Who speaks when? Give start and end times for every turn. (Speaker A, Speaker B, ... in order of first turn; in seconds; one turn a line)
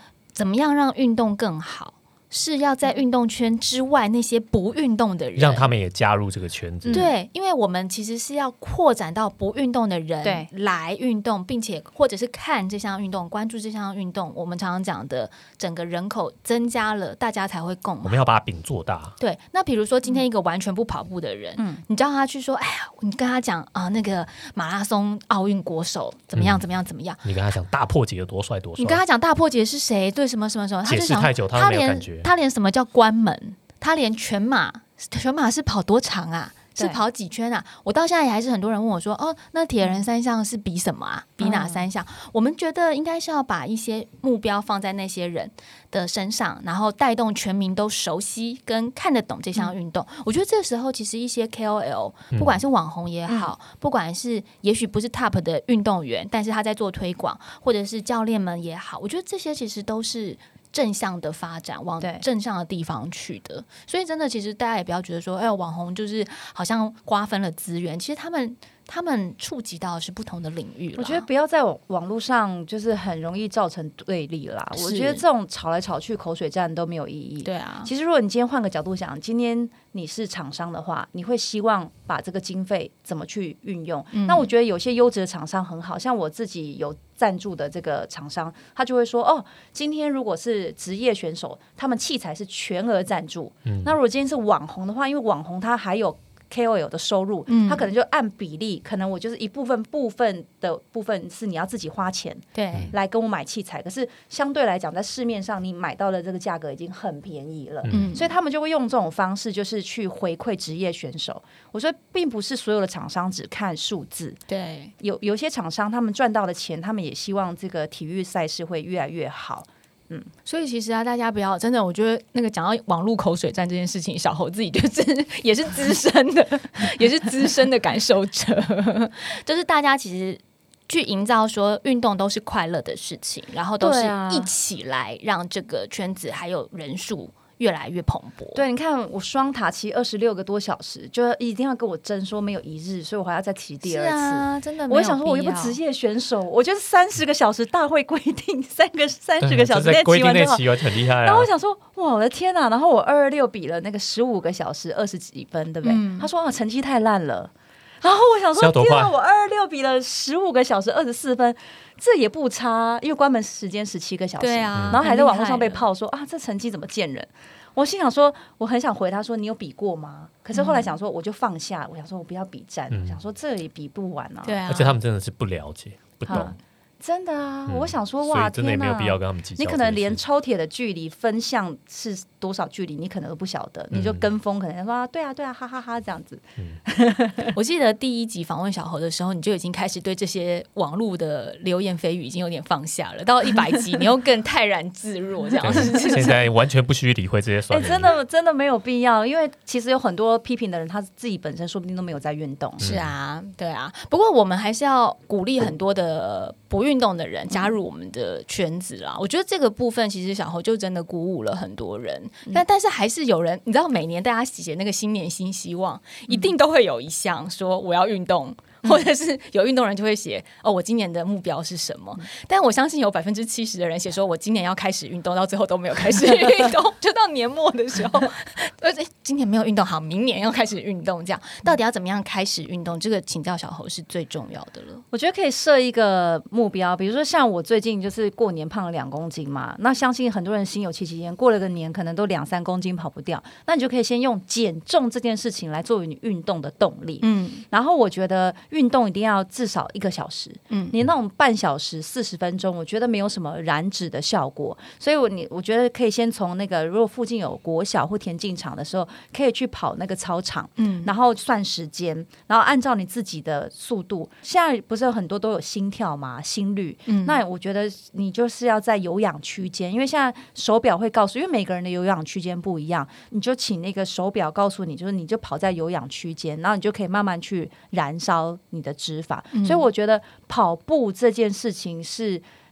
Speaker A: 0.3-5.7
Speaker B: 5.4-7.0
Speaker C: 6.8-7.1
Speaker A: 6.9-18.2
Speaker C: 10.2-10.5
Speaker B: 18.0-19.2
Speaker A: 19.2-27.3
Speaker C: 21.6-21.8
Speaker B: 26.4-26.6
Speaker B: 27.2-29.0
Speaker A: 28.8-71.3
Speaker B: 30.9-32.3
Speaker C: 41.4-41.8
Speaker C: 71.0-114.4
Speaker A: 74.8-75.2
Speaker A: 77.4-77.9
Speaker A: 84.1-84.5
Speaker B: 93.7-93.9
Speaker A: 97.5-97.9
Speaker A: 102.5-102.9
Speaker A: 107.9-108.3
Speaker A: 114.5-114.9
Speaker C: 115.0-120.3
Speaker A: 120.5-138.7
Speaker C: 133.8-134.5
Speaker C: 138.6-157.5
Speaker A: 143.8-145.8
Speaker B: 149.4-151.5
Speaker A: 155.8-156.3
Speaker C: 158.0-174.6
Speaker B: 158.6-159.1
Speaker A: 164.4-165.9
Speaker B: 164.7-165.0
Speaker A: 170.5-170.9
Speaker B: 172.9-173.2
Speaker A: 174.4-175.0
Speaker B: 174.7-176.6
Speaker C: 176.3-187.5
Speaker B: 177.7-180.2
Speaker B: 183.9-184.3
Speaker A: 187.5-196.3
Speaker B: 195.6-198.1
Speaker C: 197.7-202.8
Speaker B: 202.8-203.1
Speaker A: 202.8-235.0
Speaker C: 235.1-282.4
Speaker A: 247.2-247.6
Speaker A: 250.7-251.0
Speaker A: 260.8-261.1
Speaker A: 267.1-267.4
Speaker A: 279.5-279.9